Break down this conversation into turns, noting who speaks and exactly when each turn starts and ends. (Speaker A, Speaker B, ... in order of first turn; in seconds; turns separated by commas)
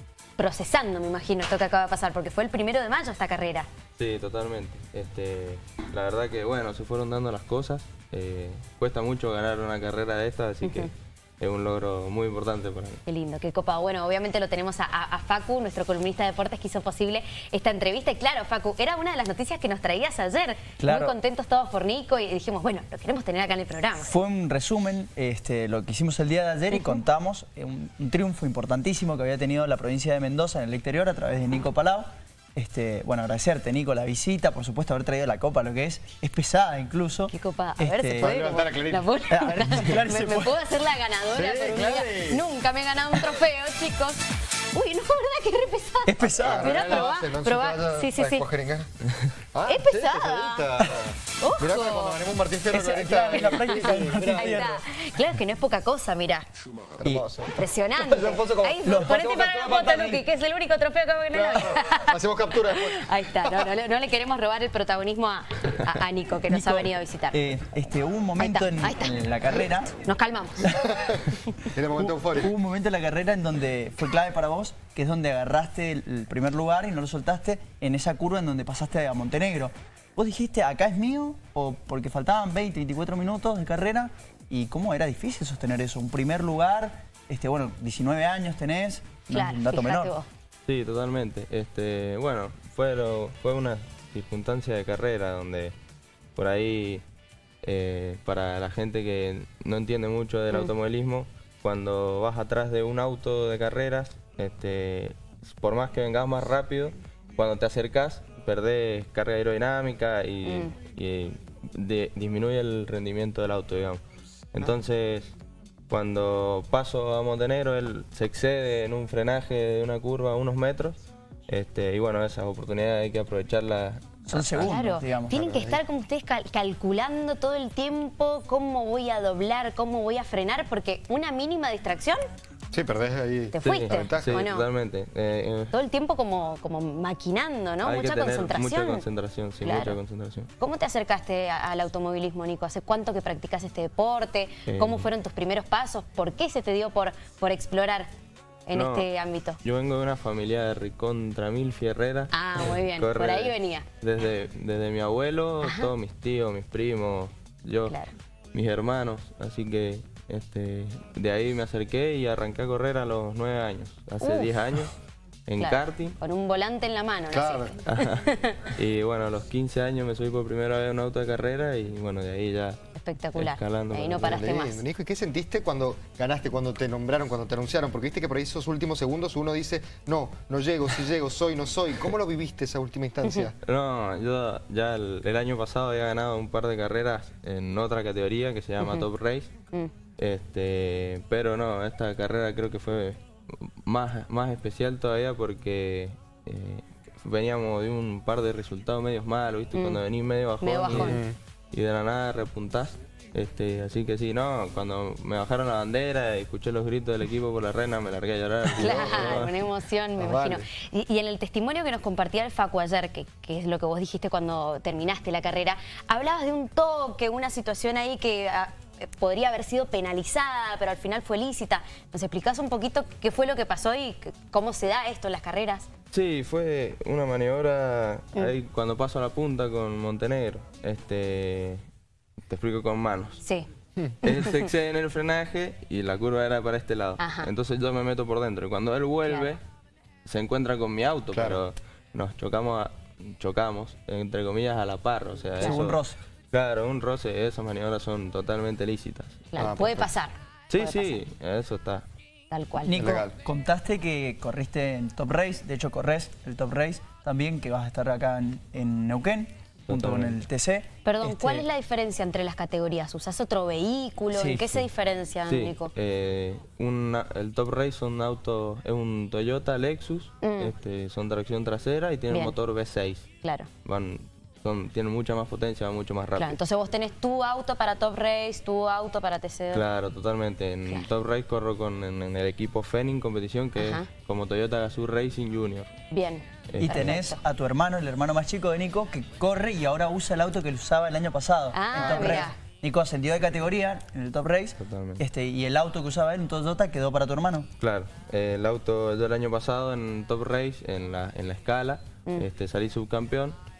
Speaker A: 0.4-3.7, Speaker B: 4.0-13.0, Speaker A: 10.6-10.9, Speaker A: 13.1-24.1, Speaker C: 20.8-21.2, Speaker C: 24.0-38.6, Speaker A: 26.7-27.0, Speaker A: 37.3-44.2, Speaker D: 38.1-39.1, Speaker C: 39.3-40.5, Speaker D: 41.3-42.5, Speaker A: 44.7-48.5, Speaker C: 46.0-47.1, Speaker D: 46.4-48.9, Speaker D: 49.5-54.6, Speaker A: 49.7-50.7, Speaker A: 51.4-52.2, Speaker C: 52.7-54.8, Speaker A: 53.3-56.5, Speaker D: 56.9-60.2, Speaker A: 57.5-62.2, Speaker C: 58.8-60.2, Speaker D: 61.3-63.7, Speaker A: 62.7-67.4, Speaker C: 66.5-69.9, Speaker A: 68.4-70.8, Speaker C: 70.6-70.9, Speaker D: 70.8-72.5, Speaker C: 72.0-90.1, Speaker A: 89.3-90.3, Speaker B: 90.7-95.8, Speaker B: 96.4-97.0, Speaker B: 97.6-114.0, Speaker A: 110.5-110.7, Speaker B: 114.5-115.4, Speaker B: 115.9-124.8, Speaker C: 124.3-125.4, Speaker A: 124.6-132.2, Speaker D: 125.3-125.8, Speaker D: 132.7-134.4, Speaker A: 133.5-134.7, Speaker B: 133.6-135.7, Speaker A: 135.7-139.1, Speaker B: 137.8-140.5, Speaker A: 139.6-140.0, Speaker A: 140.6-148.1, Speaker B: 144.7-145.1, Speaker A: 148.7-149.6, Speaker B: 148.7-149.1, Speaker B: 149.6-158.0, Speaker A: 152.3-153.9, Speaker A: 155.6-155.9, Speaker B: 158.5-164.9, Speaker A: 164.2-164.5, Speaker B: 165.5-166.2, Speaker A: 165.6-168.7, Speaker D: 167.3-167.8, Speaker B: 167.9-172.8, Speaker A: 172.9-174.8, Speaker B: 173.3-174.5, Speaker D: 174.2-183.6, Speaker A: 183.2-183.5, Speaker B: 183.6-189.5, Speaker A: 188.8-189.1, Speaker B: 190.2-209.5, Speaker A: 199.7-200.0, Speaker A: 200.6-201.2, Speaker D: 200.9-201.4, Speaker D: 208.8-209.5, Speaker A: 208.8-225.9, Speaker D: 210.2-210.6, Speaker B: 226.1-231.8, Speaker B: 232.5-233.4, Speaker A: 233.4-233.7, Speaker B: 234.2-239.6, Speaker A: 234.2-234.6, Speaker A: 237.2-237.5, Speaker A: 239.3-239.5, Speaker B: 240.2-249.8, Speaker D: 241.3-241.6, Speaker C: 245.6-246.2, Speaker A: 245.6-245.9, Speaker A: 249.5-251.2, Speaker D: 249.6-250.1, Speaker B: 250.7-252.1, Speaker A: 252.5-253.2, Speaker C: 252.8-261.7, Speaker D: 252.9-253.3, Speaker B: 259.9-260.4, Speaker A: 261.1-265.9, Speaker C: 264.3-264.8, Speaker B: 265.5-273.3, Speaker A: 270.4-270.7, Speaker A: 272.3-272.6, Speaker A: 273.4-273.7, Speaker B: 273.9-276.6, Speaker A: 276.4-279.8, Speaker B: 279.7-285.9, Speaker A: 283.8-284.1, Speaker A: 286.1-287.4, Speaker B: 286.7-287.2, Speaker C: 286.8-297.7, Speaker A: 291.7-292.6, Speaker D: 291.9-292.5, Speaker B: 294.8-295.2, Speaker B: 297.8-303.6